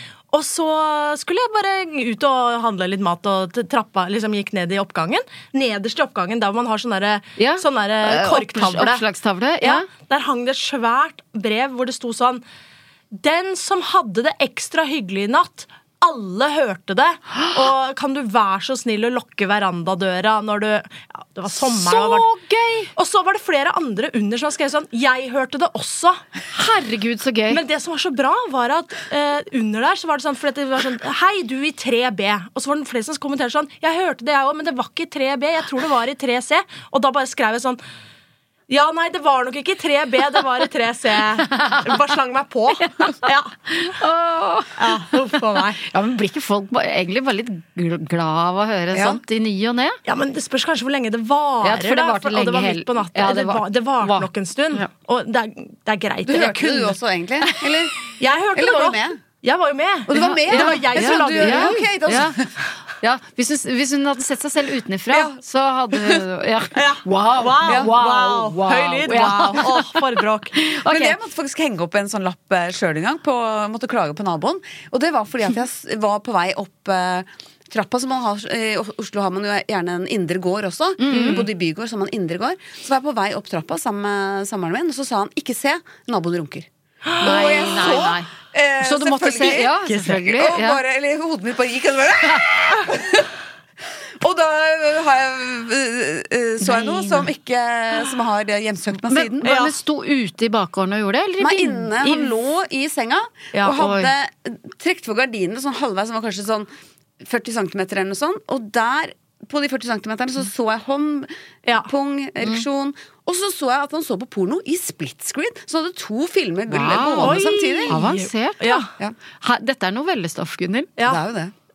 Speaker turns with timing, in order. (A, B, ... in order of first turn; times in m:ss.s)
0:00.3-0:09.0 A
0:07.4-0:09.9 B
0:09.6-0:12.4 A
0:13.1-0:22.2 A
0:21.5-0:22.9 B
0:23.0-0:26.1 A
0:26.5-0:27.6 B
0:27.5-0:37.8 A
0:38.7-0:40.2 A
0:40.9-0:42.6 A
0:41.4-0:42.0 B
0:42.8-0:50.0 B
0:44.8-0:45.2 A
0:48.9-0:49.2 C
0:50.1-0:56.9 A
0:51.6-0:54.9 B
0:56.2-0:59.2 C
0:58.2-0:58.9 A
0:59.5-1:01.8 A
1:00.1-1:02.5 C
1:00.1-1:02.3 B
1:03.0-1:11.2 B
1:05.1-1:05.4 C
1:06.8-1:10.4 A
1:07.6-1:08.0 C
1:10.8-1:26.7 C
1:21.0-1:21.4 B
1:21.1-1:21.4 A
1:27.2-1:33.3 C
1:27.2-1:30.8 B
1:34.2-1:39.7 C
1:36.6-1:37.3 B
1:39.1-1:42.3 B
1:41.4-1:46.7 C
1:43.7-1:44.1 B
1:47.2-1:58.0 C
1:56.7-2:00.9 B
1:57.2-1:58.7 A
2:01.0-2:01.5 C